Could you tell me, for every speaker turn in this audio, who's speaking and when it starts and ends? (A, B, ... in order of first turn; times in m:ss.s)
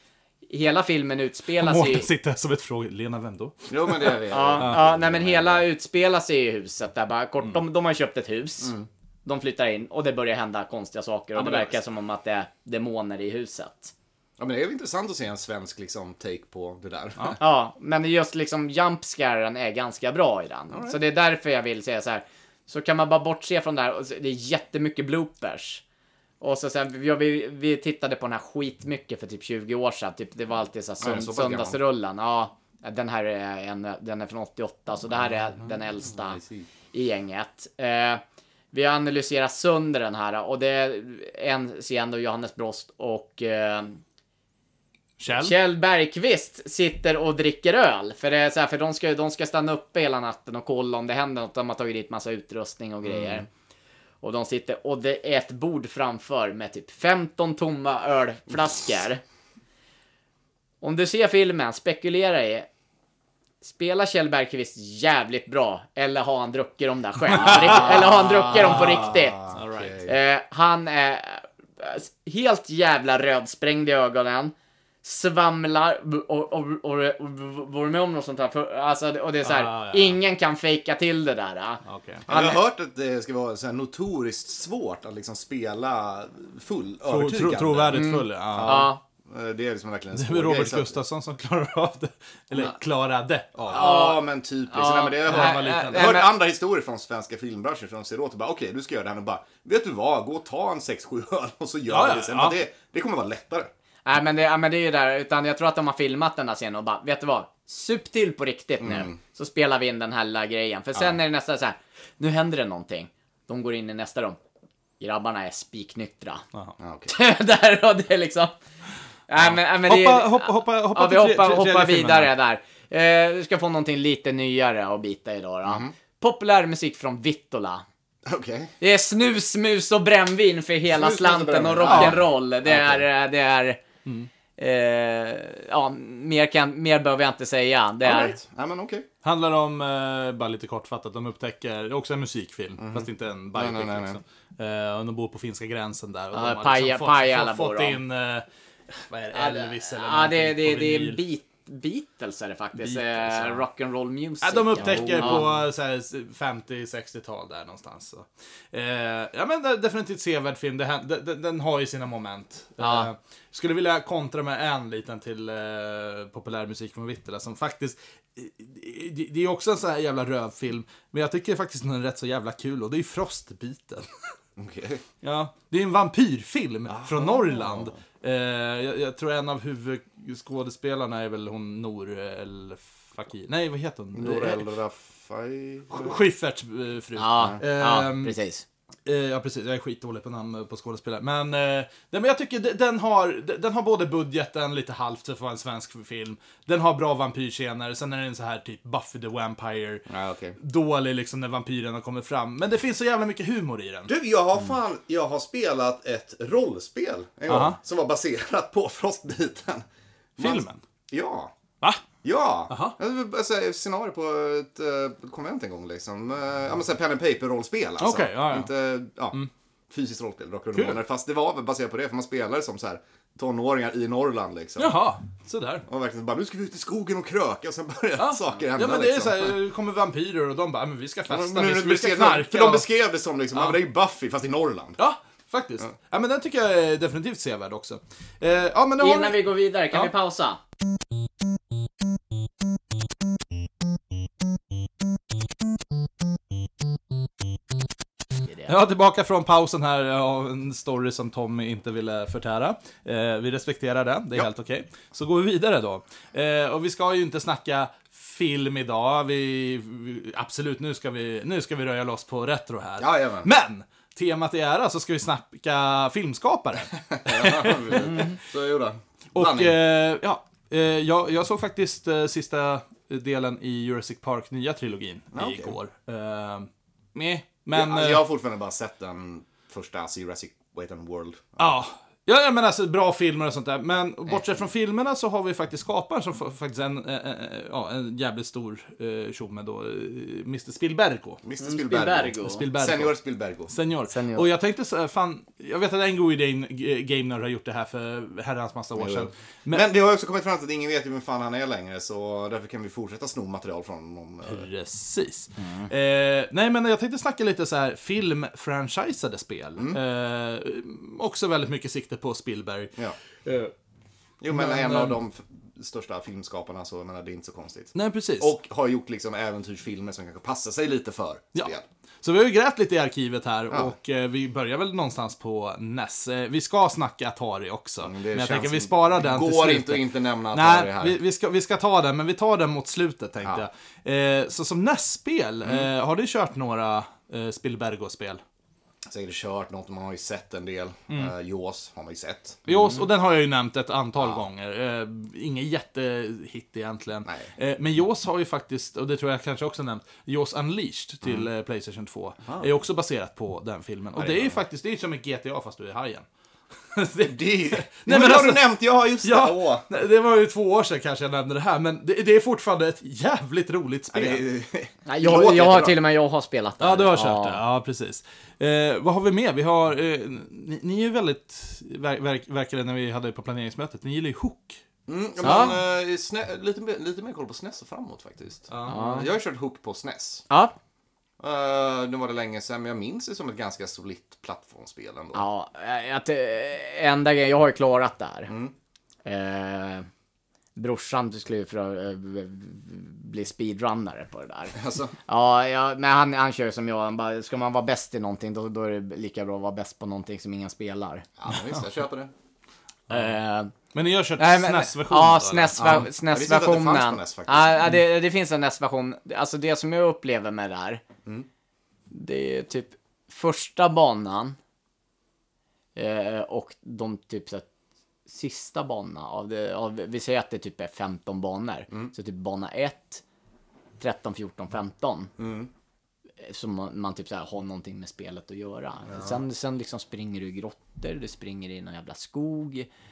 0:00.5-0:02.1 A
0:01.6-0:04.8 B
0:03.7-0:05.6 C
0:04.3-0:08.7 A
0:08.6-0:08.9 C
0:09.2-0:13.9 A
0:14.4-0:17.4 C
0:17.4-0:25.8 A
0:26.4-0:36.4 A
0:31.0-0:31.8 C
0:36.1-0:36.7 C
0:36.9-0:44.0 A
0:45.2-0:45.6 B
0:45.3-0:53.5 A
0:53.1-0:53.4 C
0:54.2-0:59.2 A
1:00.8-1:02.7 A
1:03.6-1:09.4 A
1:07.6-1:10.0 B
1:08.2-1:10.1 C
1:10.0-1:22.6 A
1:19.4-1:20.2 B
1:21.8-1:22.3 B
1:22.3-1:31.0 C
1:27.1-1:28.9 B
1:27.9-1:29.0 A
1:30.1-1:34.0 B
1:33.6-1:43.7 C
1:33.7-1:36.3 A
1:35.2-1:36.1 B
1:41.9-1:42.6 B
1:44.1-1:54.4 A
1:48.8-1:49.2 C
1:55.0-1:56.4 A
1:56.8-1:57.1 C
1:57.1-1:58.6 A
1:59.3-2:07.8 A
1:59.5-2:02.3 B
2:05.7-2:05.9 C
2:08.3-2:08.7 C
2:08.8-2:13.8 A
2:10.9-2:13.1 C
2:11.8-2:12.2 B
2:14.0-2:14.3 B
2:14.6-2:18.4 A
2:18.0-2:19.1 C
2:19.2-2:31.2 B
2:22.8-2:24.2 C
2:26.3-2:28.0 A
2:29.3-2:35.4 A
2:32.8-2:33.6 B
2:34.4-2:54.1 B
2:34.8-2:35.5 C
2:42.8-2:43.1 A
2:54.6-2:55.0 C
2:55.2-3:04.7 B
2:56.9-2:58.0 C
3:04.1-3:06.2 C
3:05.9-3:08.4 B
3:07.2-3:08.6 A
3:09.1-3:20.1 B
3:20.1-3:20.6 C
3:20.6-3:24.1 B
3:24.1-3:31.5 C
3:27.5-3:27.8 B
3:30.4-3:30.8 B
3:32.2-3:39.4 C
3:32.7-3:33.0 B
3:38.0-3:38.7 B
3:39.9-3:45.0 C
3:40.7-3:41.0 B
3:44.8-3:45.8 B
3:45.9-3:49.6 C
3:48.2-3:52.9 B
3:51.3-3:55.0 C
3:53.5-3:53.8 B
3:55.0-4:00.1 B
3:59.0-4:00.6 A
4:08.7-4:28.3 B
4:23.0-4:23.5 C
4:27.0-4:29.8 C
4:29.3-4:38.2 B
4:35.3-4:35.8 C
4:37.7-4:41.7 C
4:41.6-4:51.4 B
4:51.4-4:53.7 C
4:51.6-4:52.6 A
4:52.4-4:53.2 B
4:53.7-4:59.8 B
4:54.1-4:54.5 A
4:59.0-5:04.7 C
5:04.4-5:13.7 B
5:14.4-5:21.8 C
5:14.5-5:15.2 B
5:18.0-5:18.5 B
5:21.6-5:38.4 B
5:28.0-5:31.2 C
5:39.1-5:43.0 C
5:42.7-5:56.3 B
5:44.2-5:44.4 C
5:54.2-5:54.6 C
5:56.9-5:58.7 B
5:57.2-5:59.8 C
5:59.2-6:04.4 B
6:04.1-6:06.0 C
6:05.1-6:07.6 A
6:06.8-6:14.8 B
6:15.1-6:20.5 C
6:15.4-6:15.8 A
6:18.7-6:19.2 B
6:18.9-6:19.3 A
6:20.5-6:20.8 A
6:21.4-6:25.4 C
6:25.3-6:28.5 A
6:28.5-6:28.7 C
6:29.2-6:30.1 A
6:30.8-6:41.3 A
6:34.8-6:35.1 C
6:41.4-6:42.3 C
6:43.1-6:43.7 A
6:43.9-6:46.0 B
6:44.4-6:51.0 A
6:45.8-6:47.8 C
6:52.1-6:54.6 A
6:56.0-6:57.7 A
6:58.3-7:03.2 A
7:04.0-7:05.3 A
7:05.4-7:05.7 C
7:06.4-7:12.9 A
7:09.1-7:09.4 C